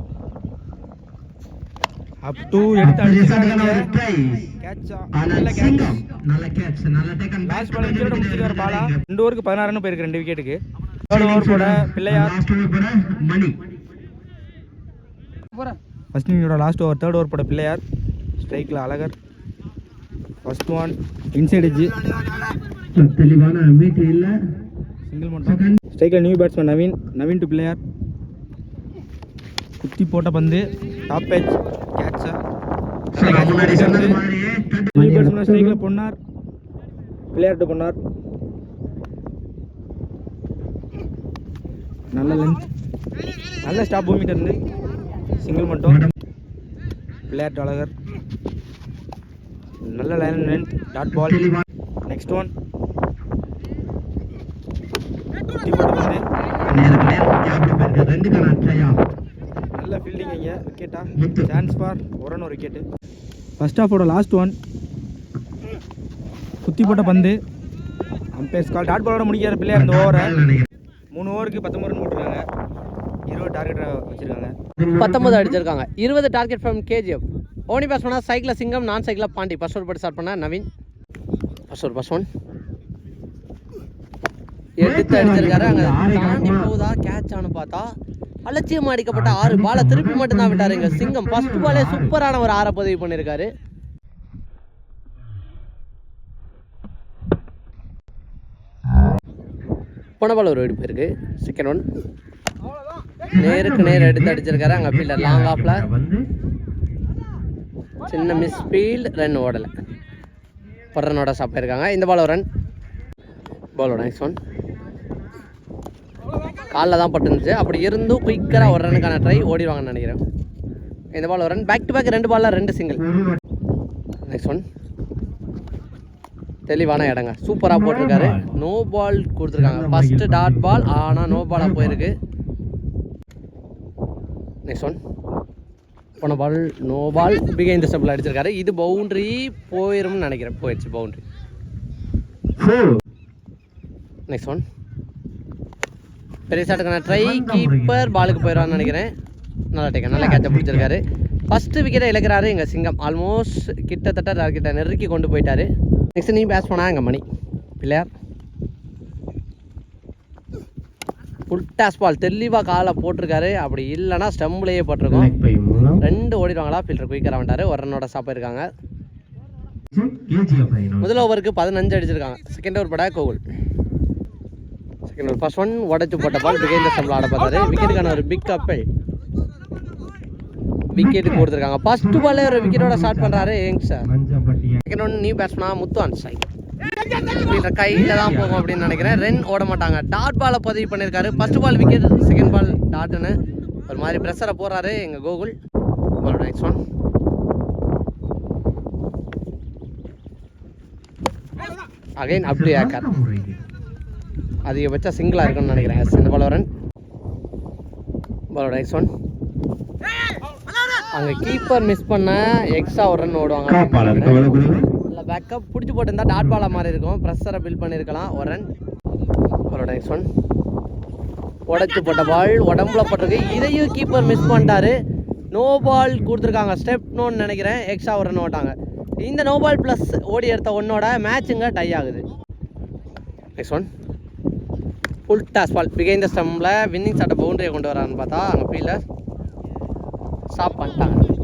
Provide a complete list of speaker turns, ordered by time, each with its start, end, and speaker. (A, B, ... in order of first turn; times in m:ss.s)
0:02.2-0:03.8 A
0:02.8-0:04.5 B
0:04.6-0:06.0 A
0:05.1-0:09.0 B
0:07.4-0:12.3 A
0:11.1-0:13.6 B
0:16.1-0:17.8 A
0:18.4-0:19.1 A
0:20.4-0:21.9 A
0:22.9-0:24.4 B
0:25.1-0:27.8 A
0:25.4-0:25.8 B
0:29.8-0:32.4 A
0:33.1-0:34.2 A
0:33.1-0:35.8 B
0:35.0-0:36.2 A
0:37.3-0:38.0 A
0:42.1-0:42.6 A
0:43.6-0:44.6 A
0:45.4-0:46.0 A
0:45.8-0:46.1 B
0:47.3-0:47.9 A
0:49.9-0:51.4 A
0:51.1-0:51.6 B
0:52.1-0:52.5 A
0:55.6-0:56.2 A
0:56.7-0:59.0 B
0:59.8-1:02.8 A
1:01.2-1:01.7 B
1:03.6-1:04.5 A
1:06.6-1:07.4 A
1:08.4-1:10.3 A
1:09.7-1:10.7 B
1:11.1-1:12.4 A
1:13.3-1:14.5 A
1:14.8-1:15.6 B
1:15.0-1:20.6 C
1:21.7-1:22.3 C
1:24.8-1:27.8 C
1:24.8-1:26.7 B
1:28.4-1:33.5 C
1:29.1-1:32.1 B
1:40.2-1:41.8 C
1:43.3-1:46.2 B
1:43.3-1:45.8 C
1:48.1-1:49.7 C
1:50.9-1:52.4 C
1:53.8-1:54.4 C
1:56.7-2:00.2 C
1:58.5-1:59.5 B
2:01.1-2:03.0 C
2:03.0-2:03.4 B
2:04.3-2:04.6 C
2:06.7-2:12.1 C
2:07.7-2:08.5 B
2:09.5-2:12.0 B
2:14.6-2:15.0 C
2:16.2-2:21.2 C
2:22.6-2:22.9 B
2:24.3-2:24.6 C
2:26.5-2:29.1 C
2:27.0-2:29.0 B
2:29.7-2:37.2 C
2:30.1-2:30.9 B
2:37.8-2:38.1 C
2:41.5-2:45.3 C
2:45.1-2:46.0 B
2:46.0-2:48.6 C
2:49.9-2:51.2 B
2:51.0-2:53.4 C
2:55.1-2:58.8 C
3:00.9-3:04.1 C
3:01.0-3:03.5 B
3:04.0-3:04.8 B
3:04.8-3:06.5 C
3:07.2-3:13.3 C
3:07.9-3:09.4 B
3:11.3-3:12.6 B
3:13.9-3:15.5 C
3:16.2-3:16.8 C
3:22.2-3:23.0 C
3:22.4-3:23.6 B
3:24.6-3:26.7 C
3:25.5-3:26.3 B
3:28.5-3:29.1 C
3:31.1-3:34.6 C
3:33.7-3:34.9 B
3:35.1-3:38.6 C
3:36.3-3:36.7 B
3:39.7-3:40.2 C
3:41.7-3:44.9 C
3:44.1-3:44.8 B
3:45.5-3:52.2 C
3:45.8-3:46.3 B
3:53.6-3:53.9 C
3:55.3-3:59.0 C
4:00.5-4:01.2 C